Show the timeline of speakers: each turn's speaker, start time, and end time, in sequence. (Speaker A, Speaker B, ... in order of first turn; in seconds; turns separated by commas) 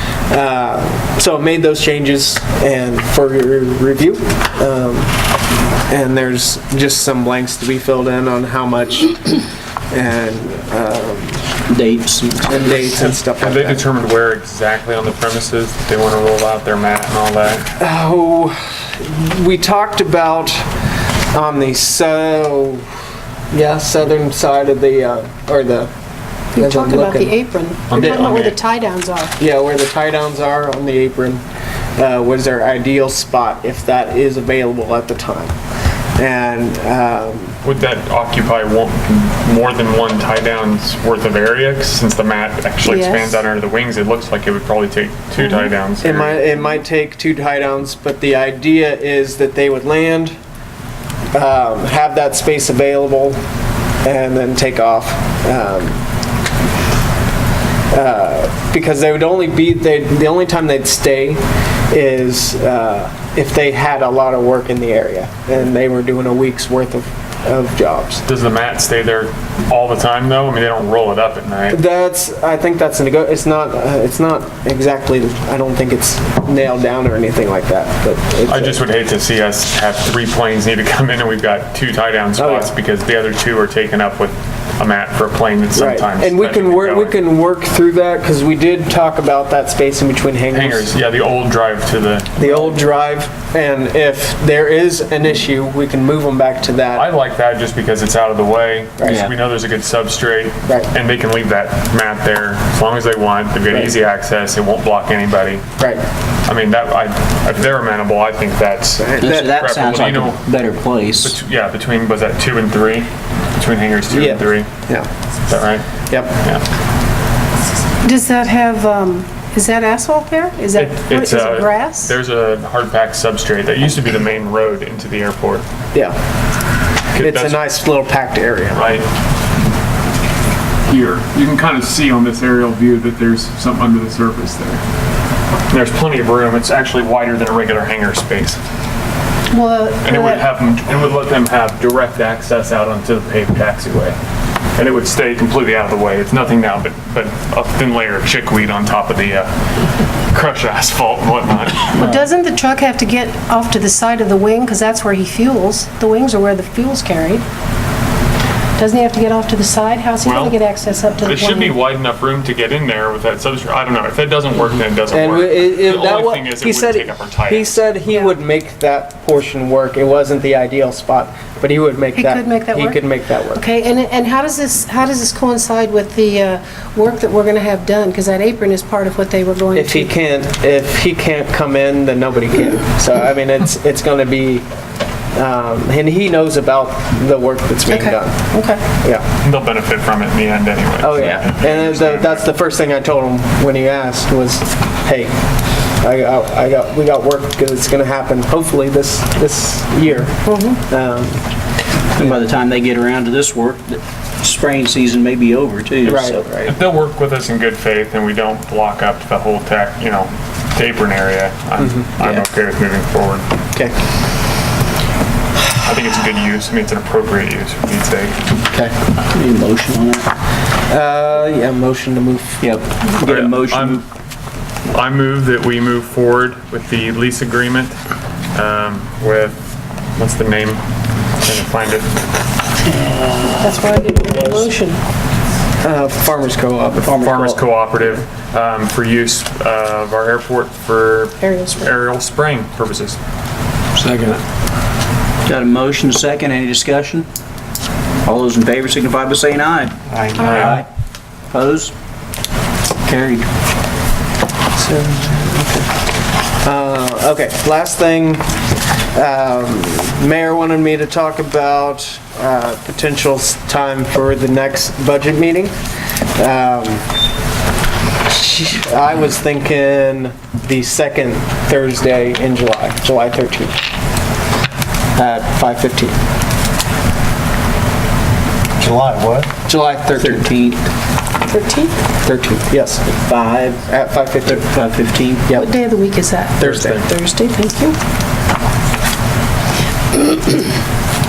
Speaker A: 0.3-5.1, Speaker A: 5.9-11.4, Speaker B: 11.7-12.8, Speaker A: 12.5-13.9, Speaker C: 13.1-17.6, Speaker A: 17.8-20.7, Speaker A: 21.3-22.9, Speaker A: 23.5-25.9, Speaker D: 26.5-29.4, Speaker A: 26.6-27.4, Speaker C: 27.9-28.6, Speaker A: 27.9-28.2, Speaker A: 29.4-31.4, Speaker A: 32.0-35.5, Speaker A: 36.2-37.6, Speaker C: 37.6-46.5, Speaker D: 42.8-43.4, Speaker A: 46.0-50.3, Speaker A: 51.3-53.4, Speaker A: 54.0-56.0, Speaker A: 57.9-68.2, Speaker C: 68.2-71.8, Speaker A: 71.7-78.8, Speaker C: 78.5-87.2, Speaker A: 82.4-82.7, Speaker A: 85.8-90.9, Speaker C: 90.5-92.6, Speaker A: 92.4-97.1, Speaker C: 96.9-105.6, Speaker B: 99.0-99.3, Speaker A: 105.8-106.0, Speaker C: 106.5-110.4, Speaker A: 109.0-109.5, Speaker B: 109.2-111.4, Speaker C: 111.2-114.7, Speaker A: 114.1-115.1, Speaker C: 115.5-115.9, Speaker A: 116.1-116.4, Speaker D: 118.0-122.1, Speaker C: 120.8-125.7, Speaker C: 127.1-127.6, Speaker A: 127.2-128.9, Speaker C: 128.7-129.1, Speaker C: 130.8-134.8, Speaker C: 135.7-138.6, Speaker D: 139.5-140.5, Speaker C: 140.0-144.2, Speaker C: 144.8-149.5, Speaker C: 150.3-152.1, Speaker D: 152.0-157.4, Speaker D: 158.8-161.8, Speaker C: 160.2-160.6, Speaker C: 161.2-167.9, Speaker A: 165.1-173.6, Speaker D: 172.2-180.1, Speaker A: 179.7-184.7, Speaker A: 185.3-188.4, Speaker D: 187.9-188.8, Speaker A: 188.9-189.2, Speaker C: 189.4-192.5, Speaker A: 191.0-195.3, Speaker B: 191.2-191.4, Speaker A: 196.0-201.4, Speaker D: 200.4-200.8, Speaker B: 202.2-206.5, Speaker A: 206.0-206.8, Speaker C: 206.7-213.4, Speaker A: 211.8-212.0, Speaker C: 215.8-218.4, Speaker B: 219.3-220.3, Speaker A: 220.9-222.6, Speaker B: 222.6-224.0, Speaker C: 223.2-224.0, Speaker C: 224.9-228.0, Speaker C: 228.5-229.6, Speaker C: 230.2-230.8, Speaker C: 231.4-232.2, Speaker D: 233.6-235.0, Speaker A: 235.8-237.1, Speaker B: 237.0-237.6, Speaker C: 237.1-243.2, Speaker D: 241.4-241.9, Speaker C: 244.0-244.4, Speaker B: 245.5-247.3, Speaker B: 248.2-250.8, Speaker C: 250.3-250.8, Speaker B: 251.5-251.9, Speaker B: 253.0-253.5, Speaker A: 254.7-255.9, Speaker A: 256.6-258.4, Speaker A: 259.1-265.8, Speaker A: 266.4-267.1, Speaker A: 268.3-273.8, Speaker A: 275.1-276.2, Speaker A: 278.8-280.5, Speaker B: 280.2-280.8, Speaker D: 281.5-281.9, Speaker A: 282.2-283.1, Speaker B: 283.2-283.8, Speaker A: 283.8-284.6, Speaker B: 284.4-285.5, Speaker D: 285.5-288.0, Speaker A: 286.6-287.0, Speaker C: 286.6-287.1, Speaker D: 290.1-290.6